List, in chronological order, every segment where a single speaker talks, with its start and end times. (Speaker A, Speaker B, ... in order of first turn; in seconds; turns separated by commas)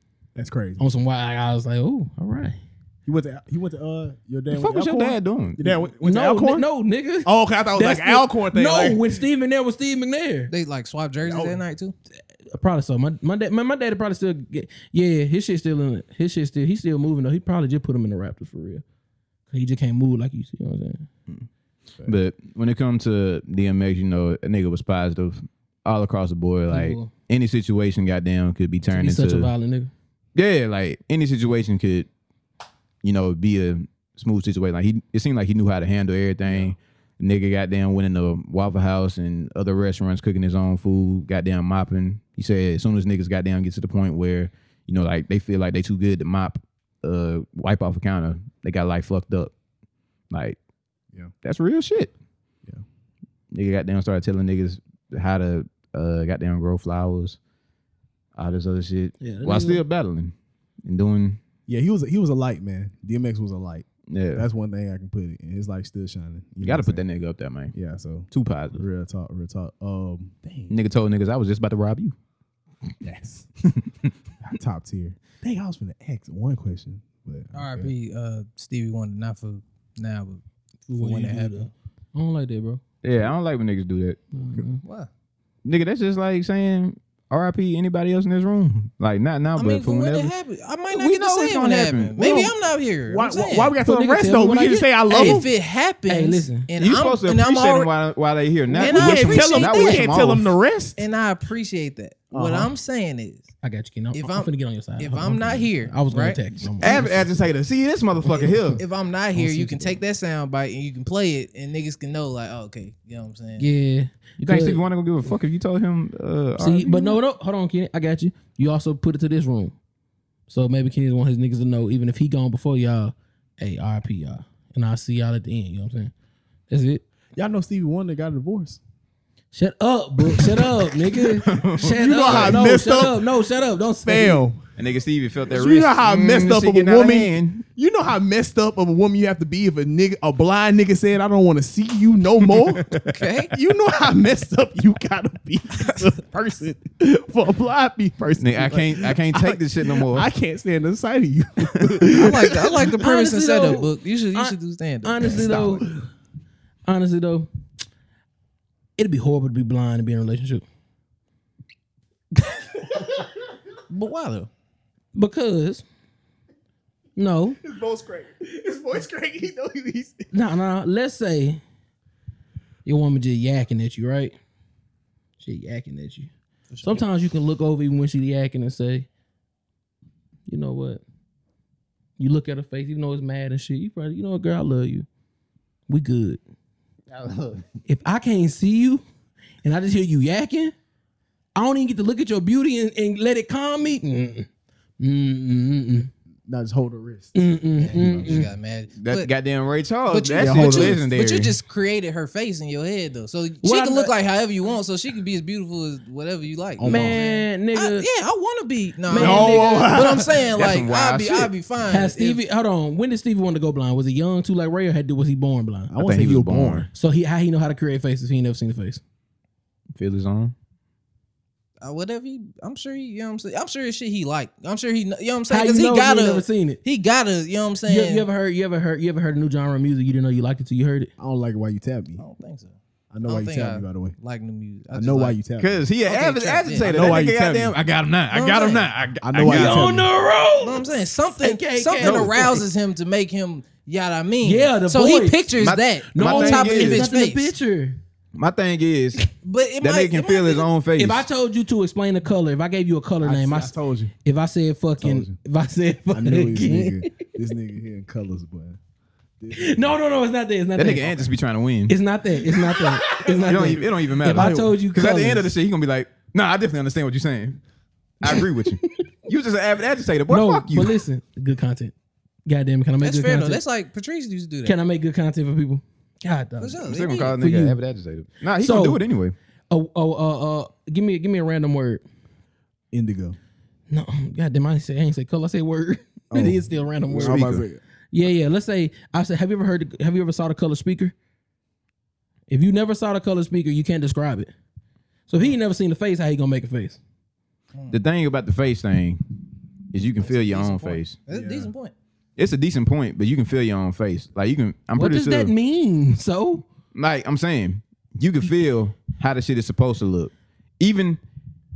Speaker A: 0.3-0.8, Speaker B: 0.8-2.6, Speaker A: 3.1-6.7, Speaker C: 4.5-5.8, Speaker B: 6.0-10.5, Speaker A: 7.3-9.1, Speaker D: 10.5-11.9, Speaker A: 11.2-11.6, Speaker B: 12.5-18.8, Speaker B: 19.5-21.1, Speaker C: 22.0-29.5, Speaker B: 26.7-27.1, Speaker B: 28.9-29.9, Speaker C: 30.4-32.1, Speaker C: 33.0-49.5, Speaker A: 36.4-36.7, Speaker C: 50.3-50.6, Speaker C: 51.4-52.1, Speaker C: 53.5-57.4, Speaker C: 58.4-60.4, Speaker B: 59.2-59.8, Speaker C: 60.9-61.4, Speaker A: 61.7-67.0, Speaker C: 64.1-64.5, Speaker C: 66.6-67.7, Speaker A: 67.7-70.8, Speaker C: 68.3-68.9, Speaker C: 70.7-72.1, Speaker A: 73.0-73.5, Speaker A: 74.4-77.9, Speaker D: 77.5-81.7, Speaker B: 80.9-82.8, Speaker C: 83.0-84.2, Speaker B: 84.3-84.8, Speaker D: 84.8-85.1, Speaker C: 85.6-90.3, Speaker D: 89.6-93.7, Speaker C: 90.9-92.3, Speaker A: 92.2-92.5, Speaker A: 93.1-95.5, Speaker B: 93.8-95.5, Speaker D: 95.1-97.9, Speaker B: 96.1-96.7, Speaker C: 96.8-100.5, Speaker D: 98.7-100.1, Speaker A: 98.8-101.0, Speaker D: 101.0-103.5, Speaker A: 102.3-102.7, Speaker B: 103.6-107.0, Speaker D: 104.1-106.4, Speaker C: 106.8-108.8, Speaker A: 106.8-107.3, Speaker D: 108.3-113.7, Speaker B: 109.3-110.0, Speaker B: 113.6-114.8, Speaker C: 114.4-117.2, Speaker B: 116.6-119.7, Speaker B: 120.5-126.1, Speaker B: 126.7-127.0, Speaker A: 127.4-128.8, Speaker B: 129.5-134.4, Speaker A: 130.4-130.7, Speaker C: 131.4-132.6, Speaker A: 131.9-133.2, Speaker A: 134.1-134.6, Speaker C: 134.8-137.6, Speaker A: 135.5-142.9, Speaker C: 142.6-143.2, Speaker D: 143.0-143.5, Speaker A: 143.5-152.9, Speaker C: 148.4-150.3, Speaker D: 152.1-155.8, Speaker B: 153.0-155.9, Speaker A: 155.2-156.0, Speaker B: 156.9-157.5, Speaker B: 159.0-160.6, Speaker D: 163.9-164.5, Speaker B: 165.1-165.8, Speaker B: 167.2-167.6, Speaker A: 167.6-170.3, Speaker B: 170.3-171.6, Speaker B: 172.8-174.3, Speaker B: 175.4-176.3, Speaker D: 176.7-177.0, Speaker B: 176.8-179.1, Speaker B: 180.5-181.0, Speaker B: 182.2-185.1, Speaker B: 185.9-186.4, Speaker C: 187.1-187.6, Speaker B: 187.9-189.0, Speaker B: 189.6-190.7, Speaker B: 191.6-194.5, Speaker B: 195.0-196.1, Speaker A: 196.4-198.4, Speaker B: 197.3-198.5, Speaker D: 197.8-199.3, Speaker C: 199.0-201.6, Speaker D: 200.1-212.4, Speaker A: 200.4-201.0, Speaker B: 203.6-204.1, Speaker A: 206.8-207.2, Speaker B: 206.8-208.1, Speaker B: 209.1-210.0, Speaker A: 209.1-210.5, Speaker C: 210.5-211.5, Speaker B: 211.9-215.9, Speaker A: 215.9-216.9, Speaker C: 216.0-216.9, Speaker B: 216.9-219.0, Speaker C: 219.9-220.5, Speaker D: 221.8-228.3, Speaker B: 225.5-226.8, Speaker B: 227.9-231.1, Speaker A: 231.2-232.2, Speaker D: 232.2-235.4, Speaker A: 233.1-234.1, Speaker A: 234.9-235.8, Speaker C: 235.6-240.0, Speaker D: 236.0-237.2, Speaker A: 236.8-237.7, Speaker D: 238.3-238.9, Speaker A: 239.2-240.1, Speaker B: 239.4-242.6, Speaker D: 240.6-247.5, Speaker C: 242.0-242.4, Speaker B: 244.4-245.4, Speaker C: 245.6-247.1, Speaker B: 246.1-248.0, Speaker C: 248.3-249.2, Speaker D: 249.4-250.7, Speaker C: 249.8-251.3, Speaker B: 251.0-257.1, Speaker A: 253.2-254.1, Speaker A: 255.0-255.4, Speaker A: 256.1-258.8, Speaker A: 259.4-259.9, Speaker B: 259.5-261.4, Speaker C: 260.8-261.9, Speaker B: 261.9-265.5, Speaker A: 263.1-264.7, Speaker C: 263.4-267.6, Speaker C: 268.2-271.0, Speaker B: 268.2-269.0, Speaker B: 270.3-271.9, Speaker B: 272.5-273.6, Speaker D: 273.0-274.8, Speaker B: 274.6-276.8, Speaker D: 276.6-277.4, Speaker C: 276.8-279.4, Speaker B: 277.4-277.8, Speaker B: 278.6-279.0, Speaker B: 279.7-282.0, Speaker A: 282.9-283.4, Speaker B: 283.9-287.5, Speaker A: 286.3-287.8, Speaker C: 287.2-287.7, Speaker B: 288.1-291.1, Speaker B: 292.5-294.5, Speaker B: 295.3-297.0, Speaker D: 297.7-298.0, Speaker C: 297.9-299.2, Speaker C: 299.9-301.2, Speaker D: 300.2-301.9, Speaker A: 301.3-301.7, Speaker C: 302.4-305.5, Speaker B: 305.0-306.6, Speaker C: 306.9-311.2